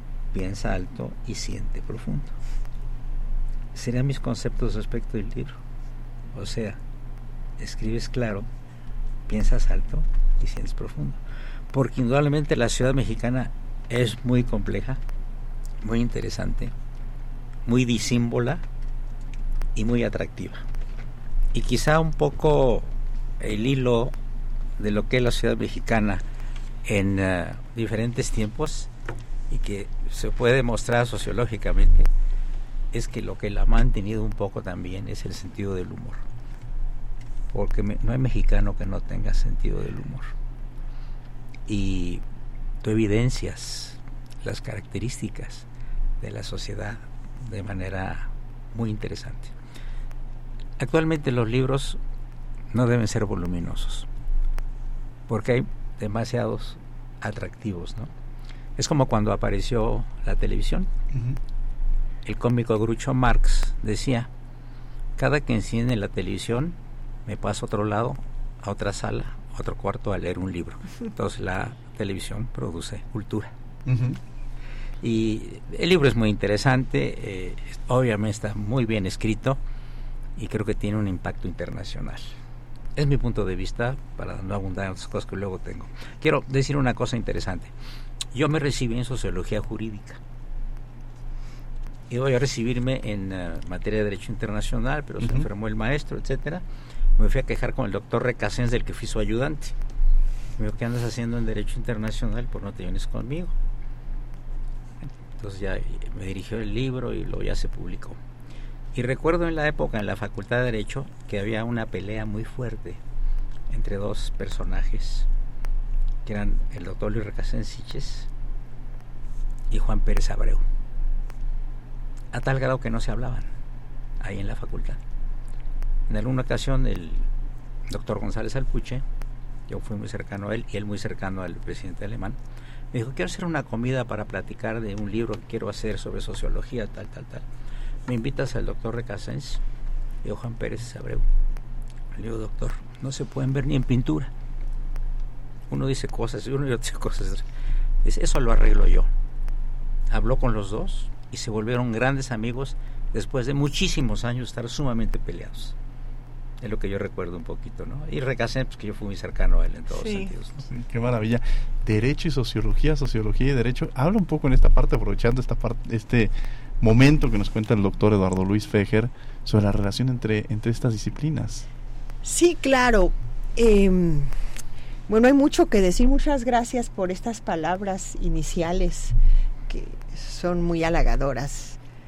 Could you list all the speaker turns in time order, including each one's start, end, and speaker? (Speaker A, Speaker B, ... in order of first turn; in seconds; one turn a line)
Speaker A: 0.3-2.3
Speaker A: 3.7-5.6
Speaker A: 6.3-6.8
Speaker A: 7.6-8.5
Speaker A: 9.3-11.2
Speaker A: 11.7-15.0
Speaker A: 15.8-16.7
Speaker A: 17.6-18.6
Speaker A: 19.7-20.6
Speaker A: 21.5-22.9
Speaker A: 23.4-24.1
Speaker A: 24.8-26.2
Speaker A: 26.8-28.9
Speaker A: 29.5-32.1
Speaker A: 32.9-36.2
Speaker A: 37.5-40.3
Speaker A: 41.7-42.2
Speaker A: 42.8-45.6
Speaker A: 46.2-49.5
Speaker A: 50.8-52.0
Speaker A: 52.7-54.1
Speaker A: 55.3-58.1
Speaker A: 58.8-60.9
Speaker B: 61.1-61.4
Speaker A: 62.2-64.3
Speaker A: 65.2-73.5
Speaker B: 73.8-74.2
Speaker A: 75.0-79.6
Speaker A: 80.4-82.3
Speaker A: 83.0-87.7
Speaker A: 88.3-90.2
Speaker A: 92.1-96.6
Speaker B: 95.2-95.5
Speaker A: 97.2-99.7
Speaker A: 100.6-103.5
Speaker A: 105.4-108.2
Speaker A: 108.9-113.0
Speaker A: 113.7-115.2
Speaker A: 116.2-118.3
Speaker A: 119.7-120.6
Speaker A: 122.3-123.5
Speaker A: 124.2-125.0
Speaker A: 126.1-127.3
Speaker A: 127.9-129.0
Speaker A: 129.7-132.4
Speaker A: 132.9-137.4
Speaker A: 138.1-139.6
Speaker A: 140.2-141.2
Speaker A: 142.1-144.3
Speaker A: 145.7-147.4
Speaker A: 148.0-149.1
Speaker A: 150.1-155.7
Speaker A: 156.6-160.7
Speaker C: 159.9-160.3
Speaker B: 160.6-171.7
Speaker C: 172.2-174.3
Speaker C: 175.1-179.1
Speaker C: 179.7-181.8